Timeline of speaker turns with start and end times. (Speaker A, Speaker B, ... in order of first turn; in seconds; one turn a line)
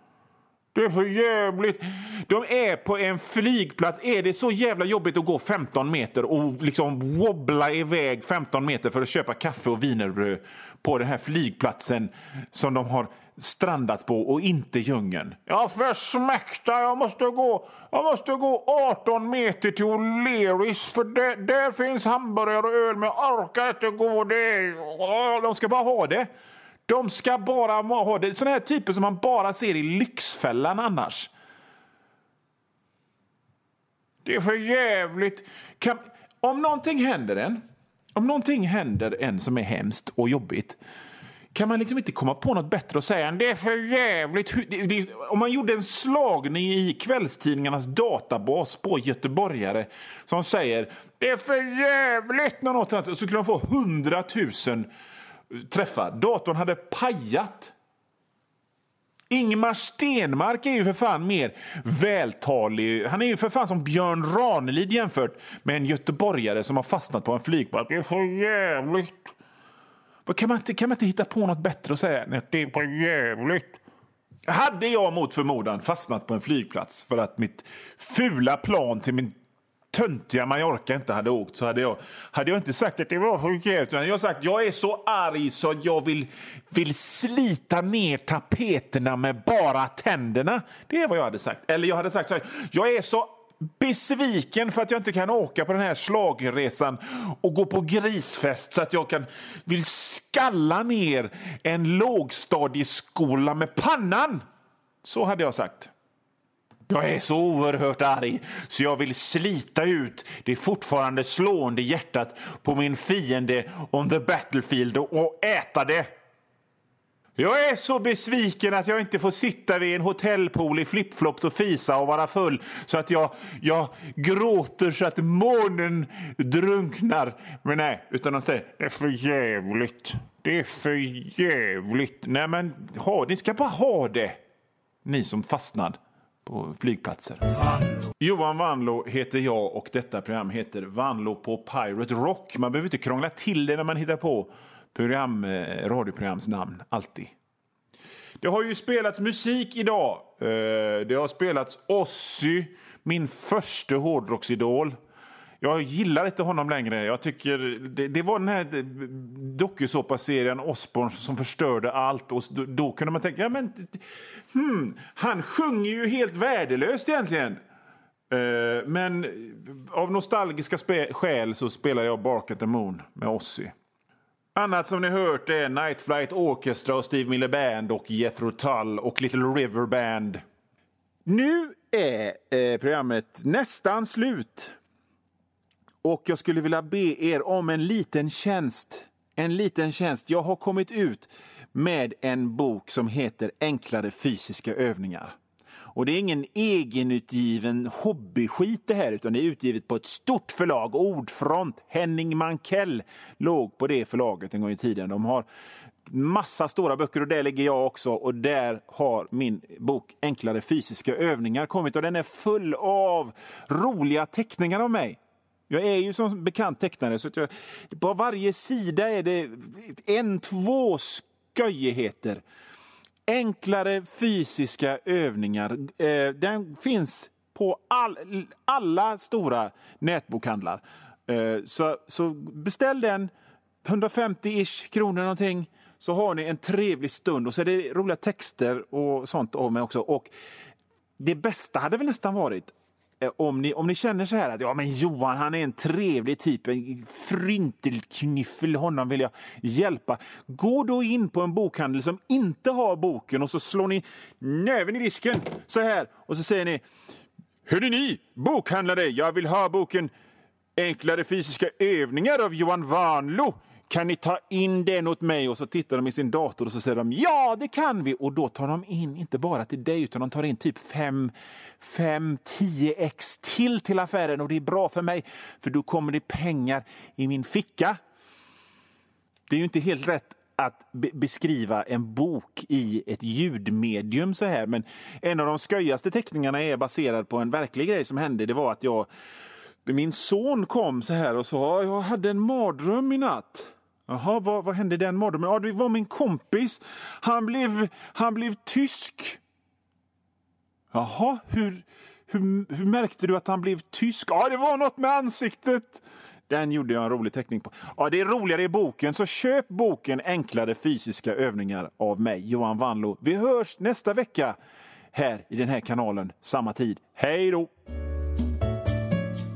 Speaker A: 0.7-26.3
Speaker A: 26.9-31.3
Speaker A: 34.2-37.6
Speaker A: 38.1-40.8
Speaker A: 41.5-54.9
Speaker A: 55.5-57.7
Speaker A: 59.3-69.3
Speaker A: 70.3-73.8
Speaker A: 74.5-79.3
Speaker A: 79.9-104.4
Speaker A: 105.0-105.9
Speaker A: 106.9-116.1
Speaker A: 117.4-134.4
Speaker A: 135.1-147.3
Speaker A: 148.4-155.0
Speaker A: 155.6-167.6
Speaker A: 168.3-173.7
Speaker A: 174.6-180.4
Speaker A: 181.3-184.8
Speaker A: 186.0-195.4
Speaker A: 195.9-205.5
Speaker A: 206.1-222.4
Speaker A: 223.3-233.3
Speaker A: 233.8-240.3
Speaker A: 241.2-256.8
Speaker A: 257.7-260.1
Speaker A: 260.8-278.0
Speaker A: 279.5-289.1
Speaker A: 289.9-299.4
Speaker A: 300.9-314.6
Speaker A: 315.1-317.7